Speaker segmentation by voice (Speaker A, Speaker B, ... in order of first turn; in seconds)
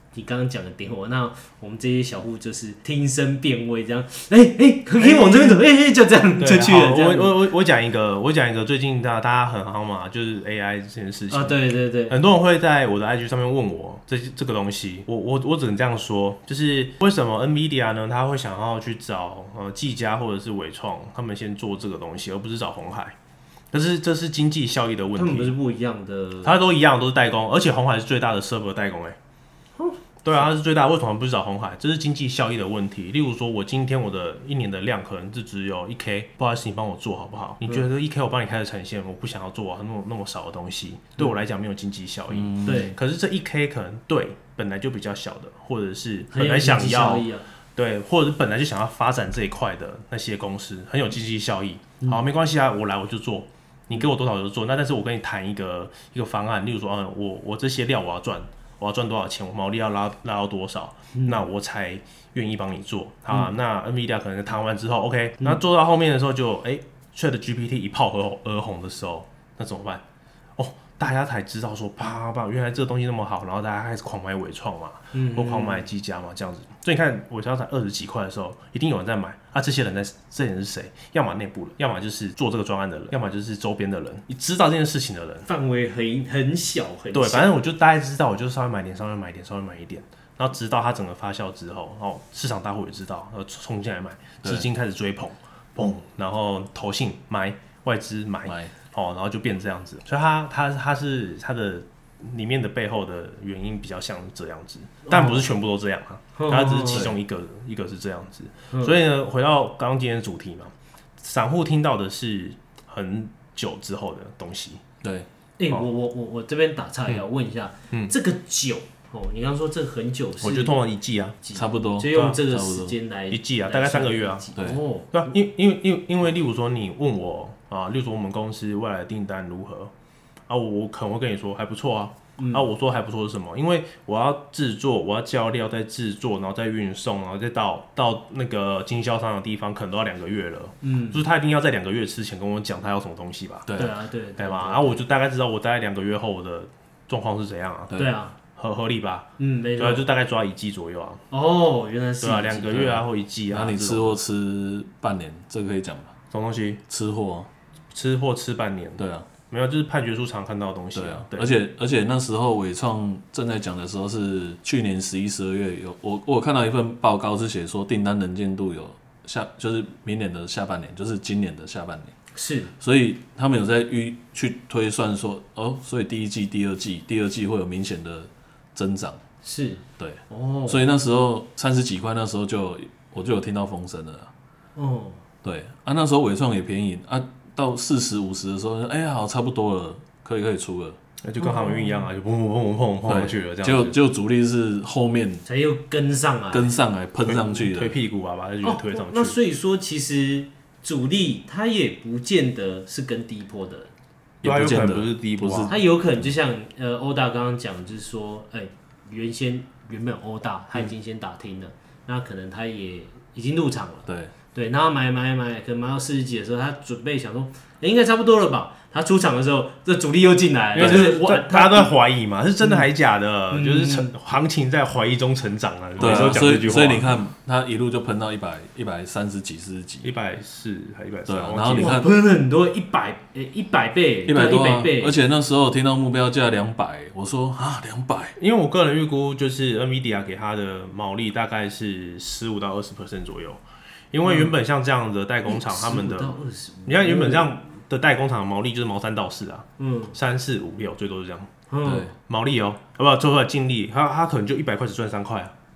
Speaker A: 0.1-7.4, 11.3-12.2, 25.1-26.6, 42.6-42.9, 46.3-47.5, 61.1-61.4, 75.1-75.8, 85.5-87.5, 105.1-105.5, 106.3-107.1, 108.7-109.0, 115.6-120.8, 121.4-125.3, 132.4-132.7, 140.8-141.2, 143.8-145.0, 147.9-148.3, 149.4-150.1, 151.3-153.0, 172.3-172.7, 179.4-180.8, 184.8-185.2, 191.4-192.1, 195.4-196.7, 198.6-203.9, 205.7-221.9, 222.6-222.9, 223.5-224.1, 231.7-235.2, 244.2-244.5, 245.5-247.5, 249.8-250.1, 251.7-252.1
Speaker B: 5.0-5.6, 6.4-23.1, 23.7-25.5, 26.4-29.2, 30.2-70.0, 70.6-85.5, 87.1-114.8, 120.4-121.3, 122.1-122.4, 123.3-124.5, 125.1-129.9, 130.5-143.7, 144.4-148.0, 148.5-151.2, 152.2-154.2, 156.3-156.8, 157.9-161.5, 191.2-193.9, 197.2-199.3, 204.4-205.7, 220.7-227.1, 230.0-232.0, 238.4-251.5, 252.3-255.5
Speaker C: 42.3-42.9, 98.5-98.7, 115.0-115.3, 121.5-123.0, 124.5-124.8, 143.7-143.9, 153.5-156.1, 156.9-157.5, 159.0-159.3, 160.9-172.1, 172.8-179.2, 180.0-184.3, 185.4-191.0, 193.1-195.4, 196.5-198.0, 204.4-206.3, 214.1-214.3, 220.8-221.1, 226.0-230.1, 231.3-232.1, 234.2-238.3, 251.8-252.1